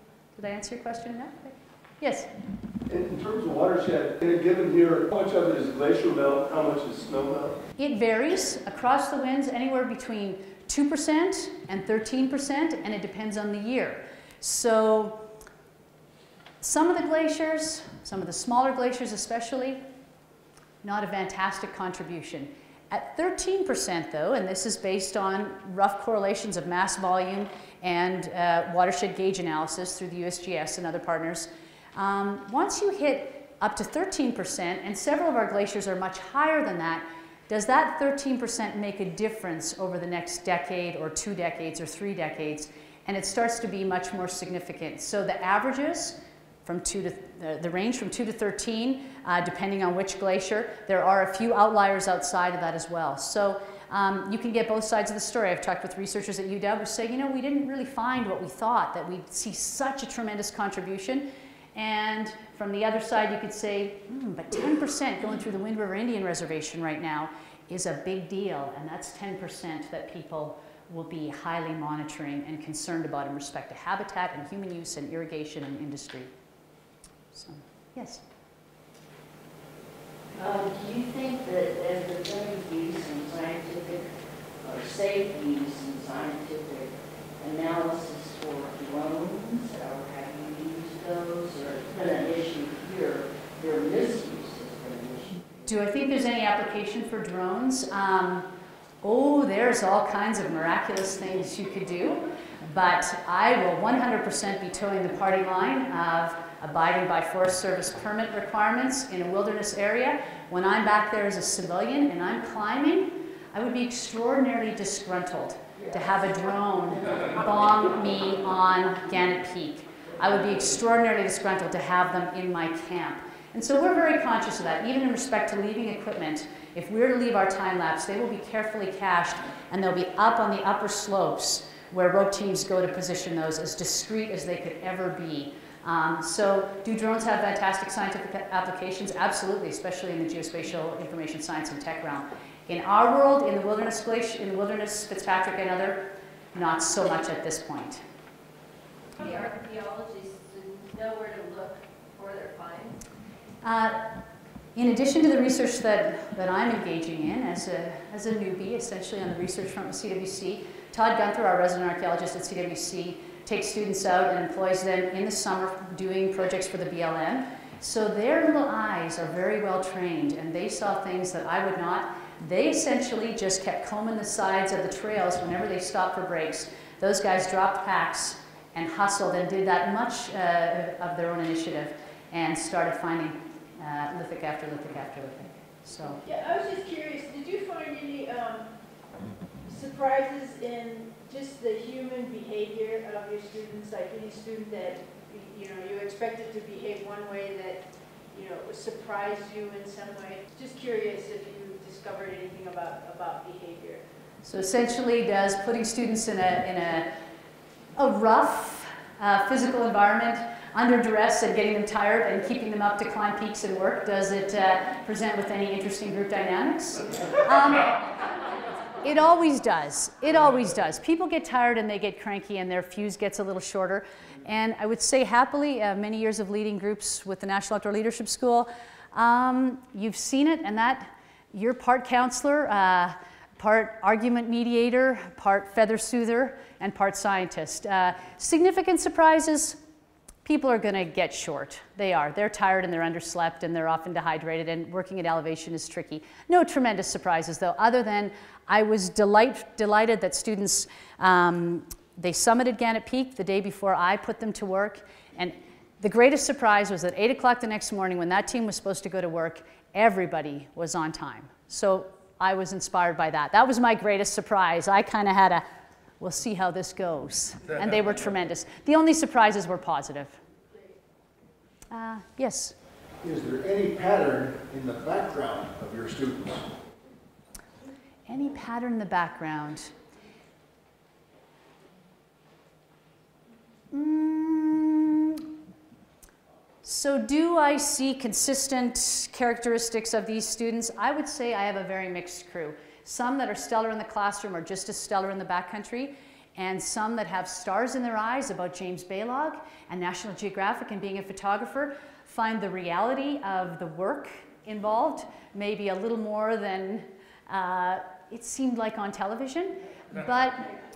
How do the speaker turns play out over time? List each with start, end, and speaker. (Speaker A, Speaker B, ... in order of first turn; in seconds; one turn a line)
Speaker A: 0.3-2.3
Speaker B: 2.9-5.7
Speaker C: 3.0-7.5
Speaker A: 7.8-15.3
Speaker A: 16.6-19.8
Speaker A: 20.8-76.3
Speaker A: 77.3-78.2
Speaker D: 80.3-95.4
Speaker A: 95.7-98.5
Speaker A: 99.0-148.0
Speaker E: 149.2-153.0
Speaker A: 153.6-154.2
Speaker A: 154.8-186.2
Speaker F: 186.2-188.7
Speaker F: 189.7-204.0
Speaker A: 204.4-207.1
Speaker A: 208.0-218.0
Speaker A: 219.0-239.8
Speaker A: 240.4-265.6
Speaker A: 266.2-270.4
Speaker A: 271.9-272.8
Speaker B: 273.2-276.7
Speaker A: 278.3-279.9
Speaker A: 283.9-285.4
Speaker A: 286.8-310.7